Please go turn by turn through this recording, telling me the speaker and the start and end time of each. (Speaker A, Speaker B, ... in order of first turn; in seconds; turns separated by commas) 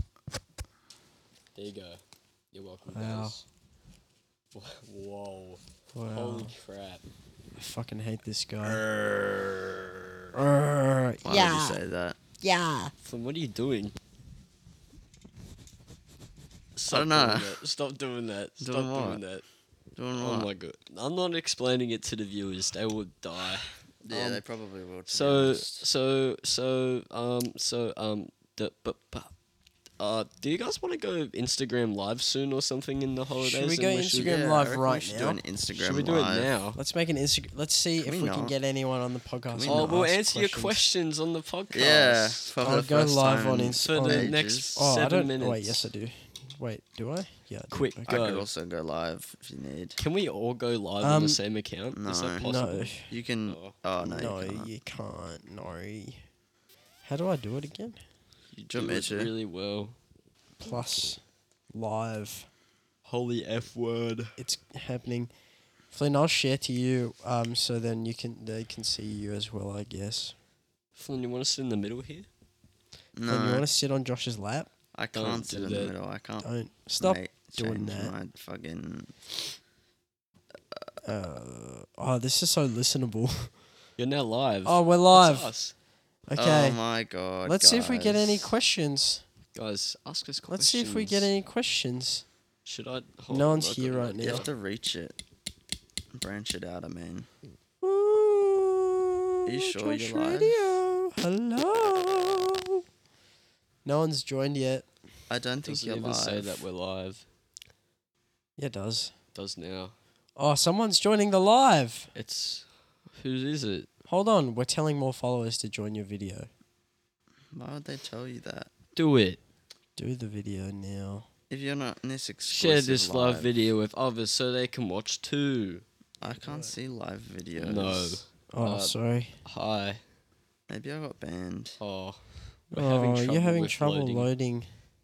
Speaker A: 1.5-3.4, Speaker B: 2.9-3.4, Speaker A: 4.5-5.6, Speaker B: 5.9-6.5, Speaker A: 6.1-7.0, Speaker B: 7.5-8.8, Speaker A: 8.6-10.1, Speaker B: 10.3-11.7, Speaker C: 11.2-12.2, Speaker B: 12.4-12.9, Speaker A: 13.0-13.9, Speaker A: 16.8-19.4, Speaker C: 16.9-17.5, Speaker C: 18.6-19.2, Speaker C: 19.9-20.5, Speaker A: 20.1-24.4, Speaker C: 24.0-25.9, Speaker A: 25.1-29.3, Speaker A: 30.0-34.4, Speaker B: 33.4-35.4, Speaker C: 34.1-36.5, Speaker A: 35.8-36.8, Speaker B: 36.7-40.9, Speaker C: 38.0-38.5, Speaker C: 39.5-40.1, Speaker A: 39.7-42.4, Speaker C: 41.7-44.8, Speaker B: 42.6-48.0, Speaker A: 43.7-45.9, Speaker A: 47.7-48.5, Speaker C: 48.0-50.0, Speaker A: 50.0-52.9, Speaker B: 51.0-51.4, Speaker C: 51.9-52.5, Speaker B: 52.4-53.1, Speaker C: 53.1-54.7, Speaker A: 53.5-53.7, Speaker B: 54.0-56.2, Speaker B: 57.0-58.0, Speaker A: 58.5-60.0, Speaker C: 58.7-59.3, Speaker B: 60.6-61.2, Speaker B: 61.7-62.5, Speaker A: 63.0-64.3, Speaker B: 64.4-65.3, Speaker B: 65.9-70.3, Speaker A: 71.0-72.3, Speaker C: 73.1-73.6, Speaker B: 73.3-74.7, Speaker C: 74.9-76.5, Speaker A: 75.1-75.9, Speaker B: 76.4-78.1, Speaker C: 77.0-79.1, Speaker B: 81.0-83.5, Speaker A: 84.0-85.7, Speaker B: 84.6-85.5, Speaker B: 86.3-86.8, Speaker C: 86.4-88.5, Speaker B: 87.4-89.2, Speaker A: 89.5-91.3, Speaker B: 90.5-92.2, Speaker A: 92.6-94.5, Speaker B: 93.3-94.5, Speaker C: 94.2-95.2, Speaker C: 96.1-97.3, Speaker B: 97.8-102.8, Speaker C: 99.5-100.6, Speaker B: 103.8-104.9, Speaker C: 105.3-106.7, Speaker A: 105.6-107.2, Speaker B: 108.6-109.1, Speaker A: 109.3-109.9, Speaker B: 110.4-112.1, Speaker A: 112.1-113.9, Speaker B: 114.1-116.5, Speaker C: 117.5-118.7, Speaker A: 119.0-119.4, Speaker B: 120.0-121.3, Speaker C: 121.5-123.5, Speaker A: 122.5-125.8, Speaker B: 126.2-126.7, Speaker C: 126.2-128.2, Speaker A: 127.6-130.0, Speaker B: 128.5-129.3, Speaker C: 130.7-131.8, Speaker A: 131.8-134.3, Speaker B: 132.7-134.7